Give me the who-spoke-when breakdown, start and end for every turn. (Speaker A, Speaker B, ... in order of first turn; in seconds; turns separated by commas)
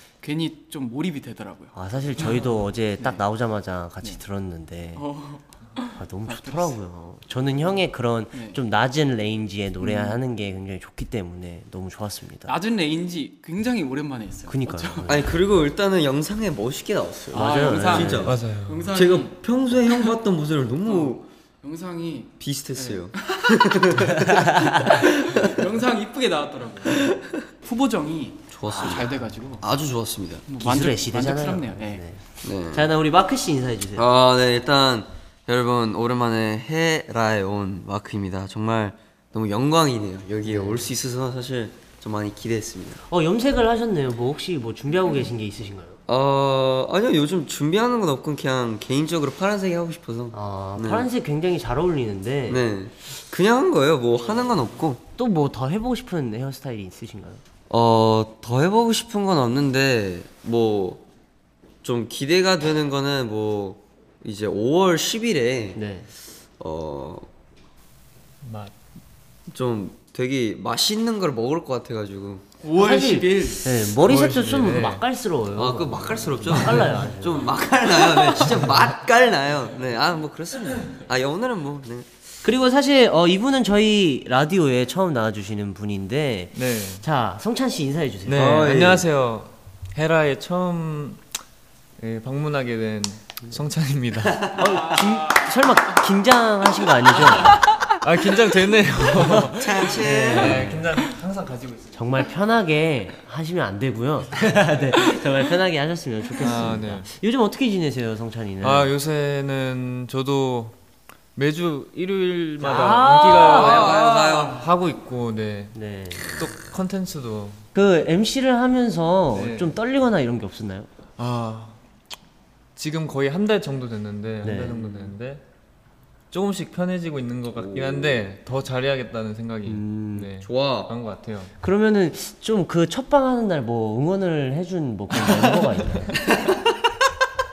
Speaker A: 0.2-2.4, Speaker B: 1.7-5.0, Speaker A: 5.0-6.8, Speaker B: 6.0-12.6, Speaker A: 8.3-8.6, Speaker A: 9.8-10.2, Speaker A: 12.5-15.1, Speaker B: 14.5-15.3, Speaker C: 15.1-18.4, Speaker B: 17.3-18.3, Speaker A: 17.3-19.4, Speaker D: 18.2-18.9, Speaker C: 18.9-21.2, Speaker A: 20.8-23.1, Speaker C: 22.4-25.6, Speaker B: 24.2-24.7, Speaker A: 24.7-29.6, Speaker C: 26.9-27.3, Speaker C: 28.5-30.5, Speaker B: 28.7-29.1, Speaker A: 30.5-32.0, Speaker B: 30.6-34.1, Speaker C: 32.4-32.9, Speaker C: 34.0-43.0, Speaker B: 40.4-40.9, Speaker B: 43.1-46.0, Speaker C: 46.1-51.1, Speaker B: 50.3-52.6, Speaker C: 52.5-55.0, Speaker B: 55.2-57.4, Speaker C: 57.7-61.0, Speaker C: 61.8-65.8, Speaker B: 65.8-66.1, Speaker C: 66.6-67.3, Speaker D: 68.4-68.7, Speaker C: 69.5-72.5, Speaker A: 72.6-74.3, Speaker B: 72.8-77.5, Speaker D: 74.0-75.0, Speaker C: 75.5-82.1, Speaker D: 76.5-77.0, Speaker B: 82.4-88.7, Speaker D: 86.5-87.0, Speaker D: 88.3-91.2, Speaker C: 88.3-89.0, Speaker D: 92.0-94.7, Speaker B: 94.5-97.6, Speaker D: 97.8-102.1, Speaker B: 99.2-100.9, Speaker C: 99.4-100.7, Speaker B: 102.0-108.9, Speaker D: 106.4-107.1, Speaker D: 108.6-110.8, Speaker D: 111.4-117.7, Speaker B: 112.6-113.9, Speaker C: 113.4-114.7, Speaker B: 115.8-116.3, Speaker B: 117.7-120.9, Speaker D: 119.3-119.8, Speaker D: 121.2-121.8, Speaker D: 122.8-125.4, Speaker B: 124.4-125.0, Speaker D: 126.3-131.5, Speaker C: 127.6-128.2, Speaker B: 129.7-130.3, Speaker C: 130.4-130.9, Speaker B: 131.6-136.2, Speaker C: 136.2-136.7